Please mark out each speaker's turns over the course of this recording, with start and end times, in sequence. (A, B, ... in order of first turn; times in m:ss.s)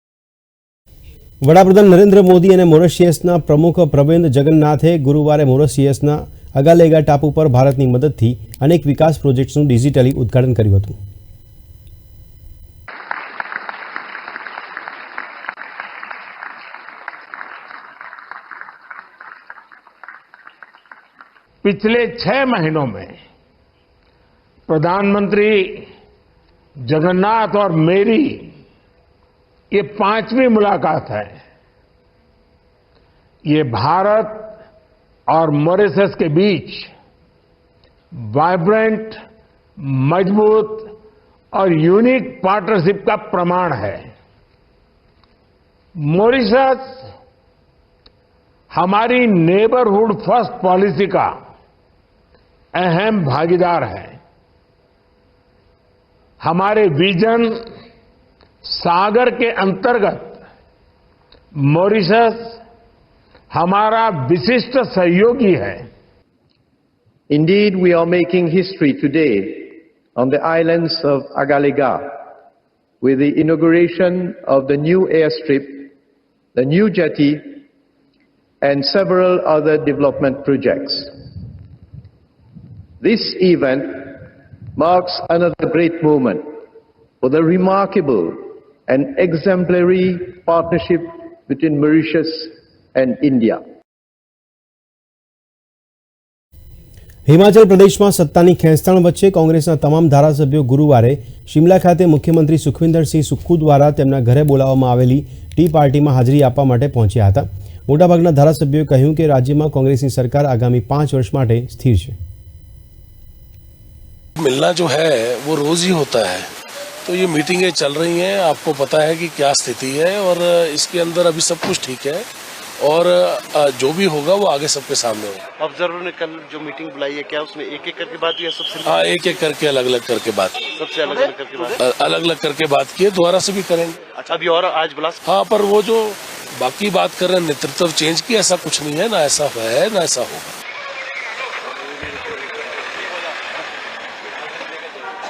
0:01.4-0:11.0 A
0:21.6-0:23.2 B
0:24.7-0:25.9 B
0:26.8-0:28.6 B
0:29.7-0:31.4 B
0:33.5-0:34.6 B
0:35.3-0:36.9 B
0:38.2-0:39.2 B
0:39.8-0:40.9 B
0:41.5-0:44.1 B
0:46.0-0:47.1 B
0:48.7-0:51.4 B
0:52.8-0:54.2 B
0:56.4-0:57.7 B
0:58.6-1:00.4 B
1:01.5-1:02.6 B
1:03.5-1:05.9 B
1:07.3-1:12.3 C
1:13.0-1:15.9 C
1:16.6-1:17.6 C
1:18.6-1:21.3 C
1:23.0-1:26.6 C
1:27.2-1:33.6 C
1:37.3-1:52.2 A
1:54.4-1:56.5 D
1:57.0-2:02.3 D
2:02.8-2:05.4 D
2:05.6-2:09.1 E
2:08.8-2:10.7 D
2:10.8-2:11.8 E
2:11.8-2:14.0 D
2:14.2-2:15.2 E
2:15.2-2:20.5 D